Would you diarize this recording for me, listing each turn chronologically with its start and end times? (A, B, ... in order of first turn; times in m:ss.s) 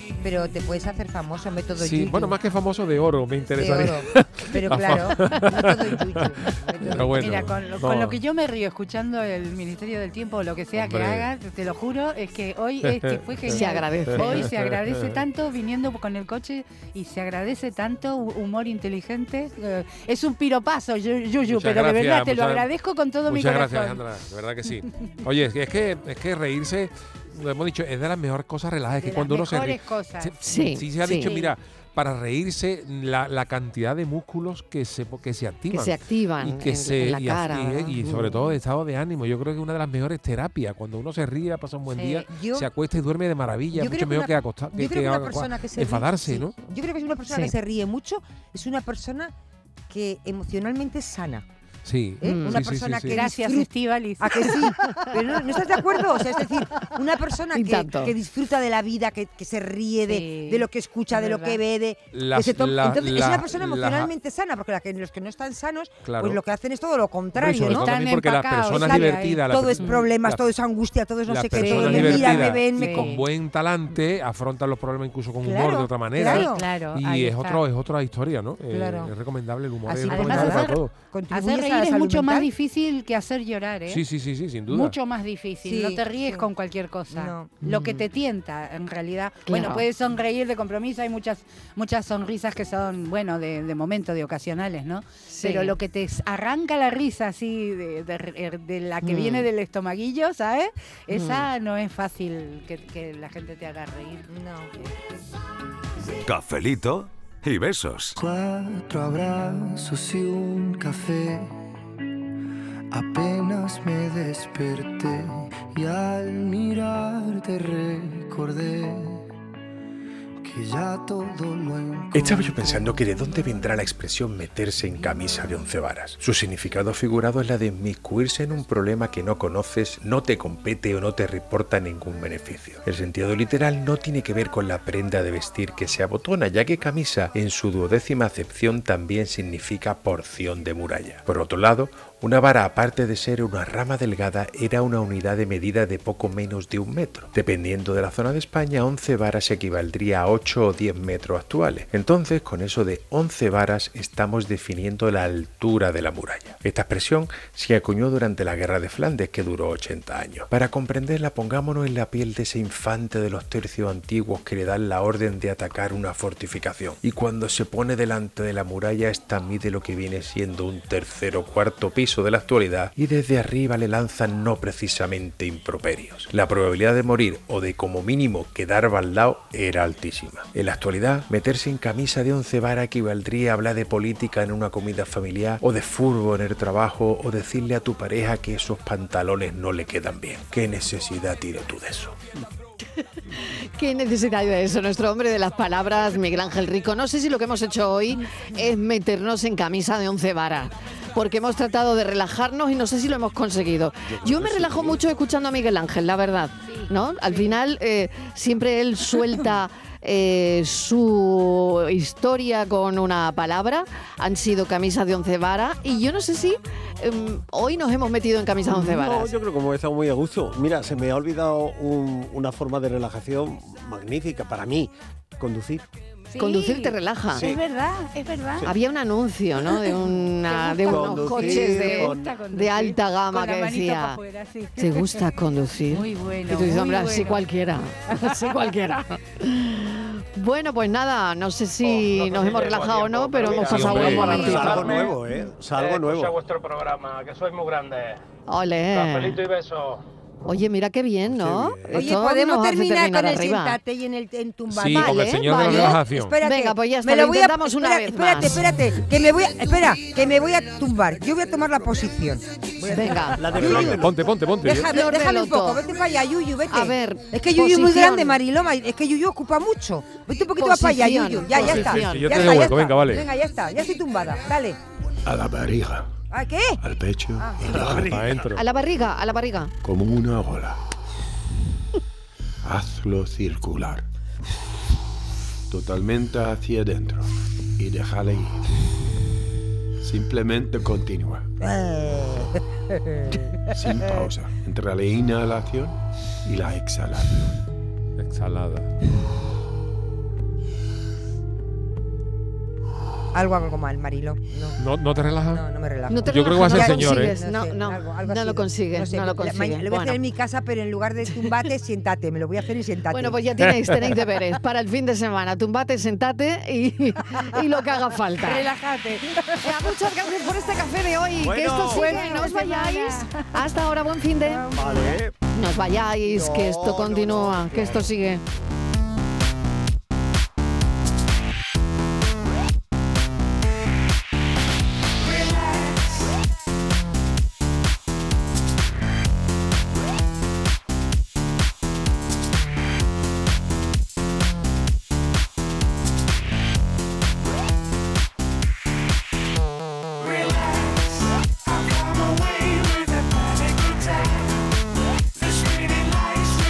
0:00.2-0:02.4 A
0:01.8-0:08.2 B
0:03.6-0:07.5 A
0:07.2-0:24.0 C
0:10.8-0:11.3 B
0:12.8-0:15.2 B
0:13.5-0:14.5 D
0:21.4-0:22.7 B
0:23.2-0:46.5 B
0:29.0-0:29.6 A
0:29.3-0:30.4 C
0:30.4-0:31.3 D
0:31.1-0:31.5 C
0:35.7-0:38.5 D
0:41.9-0:42.3 C
0:42.3-0:42.7 A
0:43.7-0:49.3 A
0:49.9-0:51.4 A
0:51.8-0:53.2 B
0:52.2-1:07.9 A
0:52.2-0:52.6 D
0:53.1-0:55.2 C
0:57.5-0:58.1 D
1:00.1-1:01.6 C
1:02.1-1:04.1 B
1:06.0-1:06.4 B
1:07.3-1:10.4 B
1:07.6-1:10.1 C
1:08.7-1:13.1 A
1:11.2-1:20.9 B
1:11.5-1:13.2 C
1:15.4-1:16.6 A
1:16.2-1:17.6 C
1:18.7-1:19.1 A
1:19.8-1:22.5 A
1:20.0-1:24.0 C
1:23.9-1:24.9 B
1:24.7-1:44.3 C
1:25.6-1:26.5 A
1:27.1-1:27.6 A
1:29.4-1:29.8 D
1:35.3-1:35.7 D
1:39.0-1:39.5 D
1:41.1-1:41.5 D
1:44.3-1:45.2 A
1:46.2-1:48.2 E
1:48.2-1:51.5 F
1:52.9-1:59.2 F
2:00.4-2:03.1 F
2:02.1-3:12.2 G
3:13.4-3:39.3 D
3:24.3-3:24.7 H
3:26.6-3:27.6 C
3:38.7-3:45.9 H
3:46.3-3:48.7 C
3:46.4-3:47.5 D
3:47.3-3:47.6 H
3:48.6-3:54.2 D
3:49.7-3:55.2 C
3:50.6-3:52.3 H
3:54.8-4:05.1 D
3:55.9-3:57.4 C
3:58.1-3:58.6 C
4:02.2-4:03.2 I
4:03.3-4:06.4 H
4:03.6-4:04.5 B
4:05.9-4:07.5 I
4:08.5-4:09.4 D
4:10.4-4:13.8 D
4:11.3-4:12.1 H
4:11.9-4:34.8 A
4:14.7-4:16.4 B
4:14.9-4:18.7 D
4:22.9-4:23.4 D
4:23.4-4:24.1 H
4:23.5-4:24.9 B
4:24.9-4:25.8 D
4:26.7-4:28.4 D
4:30.5-4:33.0 D
4:31.5-4:33.3 B
4:35.2-4:36.1 J
4:36.3-4:36.8 A
4:36.8-4:38.4 J
4:37.4-4:37.6 A
4:37.6-4:38.4 H
4:37.8-4:38.6 B
4:38.6-4:39.7 D
4:39.8-4:40.8 J
4:42.6-4:44.0 J
4:45.7-4:48.6 J
4:50.0-4:51.5 J
4:51.6-4:54.3 A
4:53.7-4:57.5 J
4:58.2-4:58.9 B
5:03.3-5:04.8 A
5:04.8-5:05.6 B
5:05.5-5:13.4 A
5:06.1-5:10.2 D
5:06.2-5:07.3 B
5:13.1-5:18.7 D
5:18.4-5:19.7 C
5:19.6-5:24.7 D
5:21.4-5:22.3 H
5:21.8-5:23.6 C
5:24.4-5:25.2 C
5:24.7-5:25.3 H
5:25.5-5:28.4 D
5:26.2-5:28.1 H